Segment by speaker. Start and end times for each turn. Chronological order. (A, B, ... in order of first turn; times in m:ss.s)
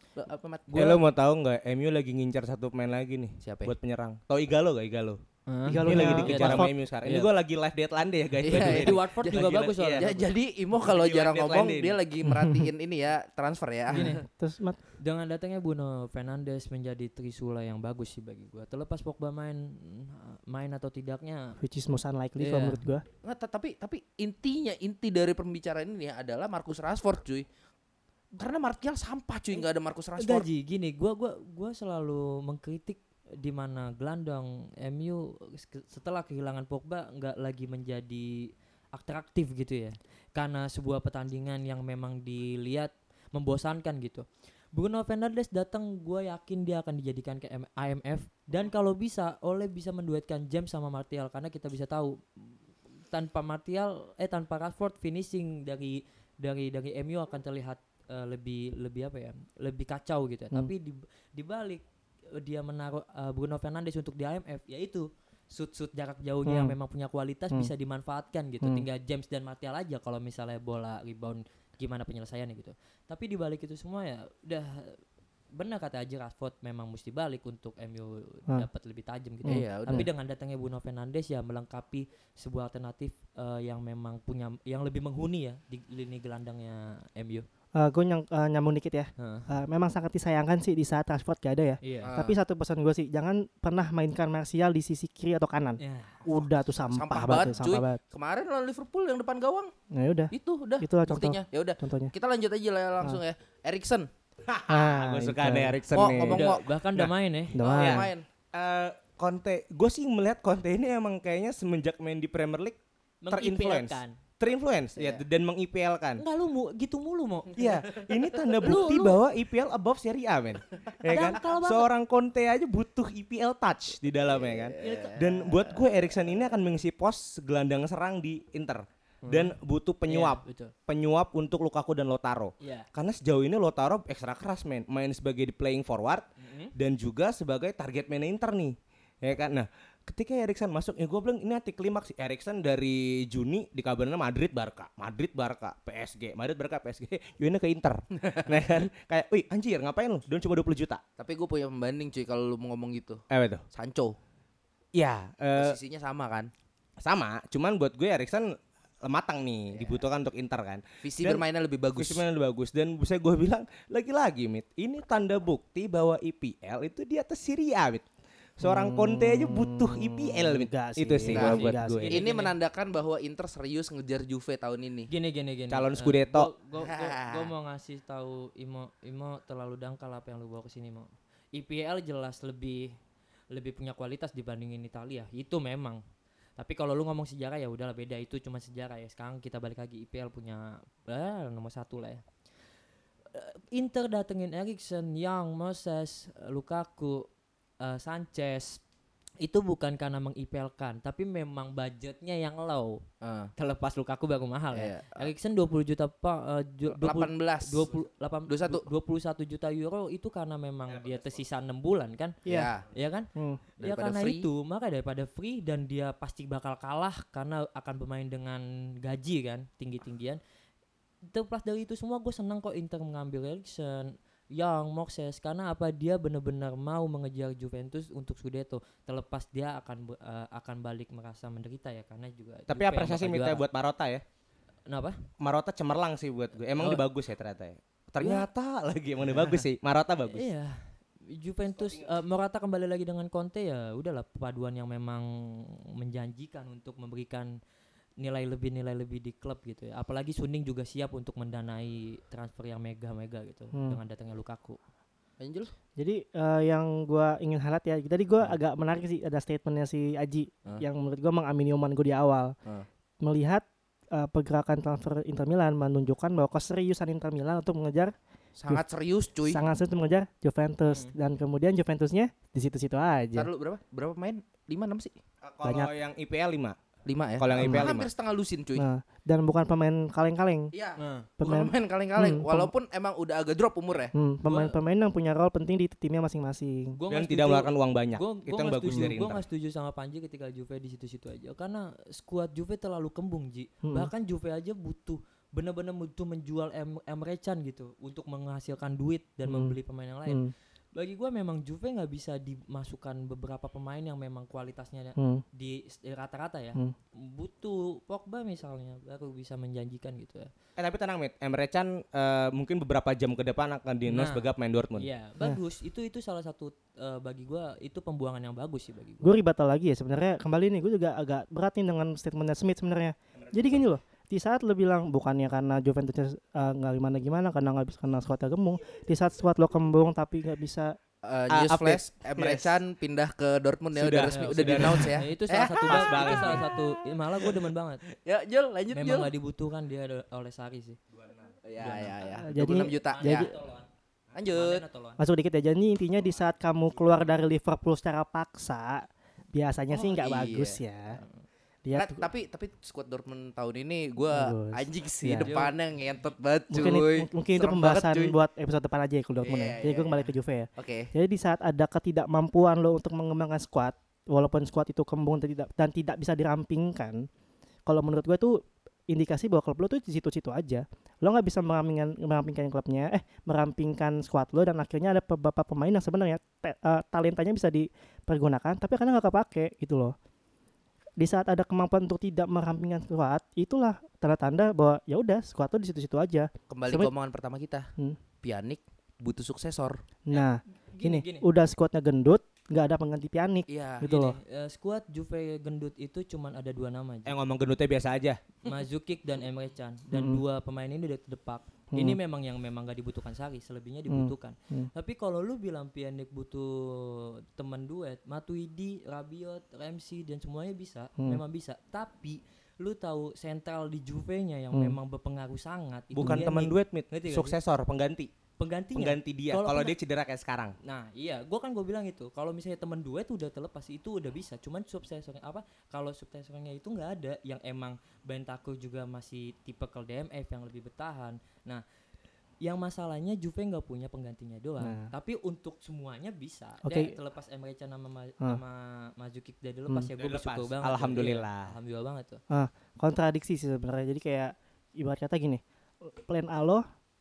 0:00.2-0:01.0 A
0:00.8-0:05.2 B
0:03.4-0:03.7 A
0:05.5-0:07.3 C
0:05.7-0:06.7 D
0:05.8-0:10.1 B
0:08.4-0:14.1 A
0:08.5-0:10.3 C
0:10.8-0:12.0 B
0:12.3-0:12.7 D
0:13.9-0:14.8 D
0:13.9-0:14.2 C
0:15.0-0:21.6 C
0:21.6-0:23.0 D
0:22.4-0:22.8 C
0:23.2-0:27.5 A
0:28.4-0:30.5 A
0:30.2-0:52.5 C
0:53.1-1:15.0 C
1:06.5-1:06.8 D
1:15.5-1:27.5 C
1:19.4-1:20.1 D
1:19.5-1:20.1 A
1:27.8-1:38.0 D
1:29.2-1:29.5 C
1:31.8-1:32.1 C
1:32.0-1:32.4 A
1:35.8-1:36.2 C
1:36.9-1:39.7 A
1:39.9-1:42.1 D
1:40.3-1:44.1 A
1:44.5-1:47.1 B
1:44.7-1:45.8 D
1:45.9-1:46.7 A
1:46.3-1:47.6 C
1:47.6-1:48.1 D
1:47.6-1:48.3 A
1:47.8-1:52.8 B
1:53.2-1:54.2 C
1:53.3-1:56.2 B
1:55.0-1:55.2 A
1:56.2-1:57.6 C
1:57.6-2:31.0 B
1:58.6-1:59.2 C
2:01.1-2:01.9 C
2:04.3-2:05.9 A
2:04.8-2:05.2 C
2:09.2-2:09.5 C
2:10.1-2:10.7 C
2:12.6-2:12.9 C
2:16.4-2:16.7 C
2:28.2-2:28.6 A
2:31.2-2:34.2 A
2:33.3-2:33.6 B
2:34.9-2:35.8 B
2:35.6-2:36.5 A
2:37.0-2:41.4 B
2:39.7-2:40.0 A
2:41.0-2:42.2 A
2:42.0-2:48.1 B
2:48.6-2:52.1 B
2:48.6-2:52.1 D
2:51.3-2:55.1 A
2:52.0-2:52.6 C
2:55.1-3:03.0 C
2:55.7-2:56.5 B
2:56.8-2:57.5 A
3:03.5-3:06.0 C
3:06.6-3:12.2 C
3:13.3-3:17.3 C
3:17.8-3:18.8 C
3:19.4-3:23.0 C
3:23.2-3:23.5 A
3:23.6-3:32.4 C
3:24.7-3:25.3 A
3:27.0-3:27.9 A
3:28.5-3:28.8 A
3:30.9-3:31.2 B
3:32.4-3:32.7 D
3:32.5-3:32.8 A
3:32.9-3:40.4 C
3:33.4-3:33.6 D
3:33.8-3:34.5 A
3:41.3-3:53.6 C
3:52.7-3:54.2 B
3:54.9-3:55.2 C
3:55.4-4:00.5 B
3:56.8-3:57.0 C
3:58.2-3:58.5 C
4:00.3-4:07.5 C
4:08.2-4:14.8 C
4:13.7-4:14.0 D
4:15.4-4:15.7 A
4:16.0-4:22.6 D
4:23.2-4:28.1 D
4:28.6-4:29.6 A
4:29.5-4:33.5 D
4:30.9-4:31.1 C
4:33.3-4:35.2 A
4:35.4-4:36.8 B
4:35.6-4:35.9 D
4:37.1-4:38.9 A
4:37.4-4:38.1 B
4:37.6-4:37.9 D
4:38.8-4:40.7 D
4:40.7-4:44.1 A
4:41.0-4:41.3 C
4:41.4-4:42.7 D
4:44.1-4:47.0 D
4:44.5-4:44.8 C
4:47.0-5:10.5 C
4:47.1-4:49.4 B
4:53.8-4:54.1 D
4:59.5-4:59.8 D
5:00.3-5:00.5 D
5:05.2-5:05.4 D
5:10.8-5:15.1 B
5:14.1-5:19.3 C
5:19.2-5:31.0 D
5:31.2-5:36.8 A
5:31.5-5:32.8 B
5:34.0-5:35.2 B
5:34.3-5:38.0 C
5:35.8-5:36.7 B
5:38.1-5:39.3 A
5:38.9-5:41.0 C
5:41.2-5:41.5 B
5:41.6-5:43.5 A
5:41.8-5:42.1 C
5:42.4-5:43.5 D
5:42.8-5:43.9 C
5:44.3-5:44.8 A
5:44.5-5:45.2 C
5:45.2-5:51.2 D
5:49.9-5:50.8 A
5:51.8-5:52.2 D
5:51.9-5:58.4 A
5:54.3-5:55.5 D
5:55.4-5:55.8 C
5:56.7-6:07.3 D
5:59.4-6:01.1 A
6:07.9-6:20.2 D
6:21.2-6:27.1 D
6:26.7-6:27.9 A
6:28.4-6:30.0 A
6:30.3-6:34.4 D
6:30.3-6:31.5 C
6:33.7-6:34.0 A
6:34.0-6:37.3 C
6:37.3-6:38.4 B
6:38.6-6:57.6 C
6:40.1-6:40.4 D
6:41.9-6:42.2 D
6:44.1-6:44.9 D
6:54.7-6:55.0 D
6:56.1-6:58.3 B
6:56.2-6:56.5 D
6:58.6-7:00.0 C
6:59.0-7:00.8 B
7:00.8-7:11.8 C
7:12.6-7:22.4 C
7:14.8-7:15.1 D
7:16.8-7:17.1 D
7:20.2-7:21.8 B
7:22.5-7:26.8 D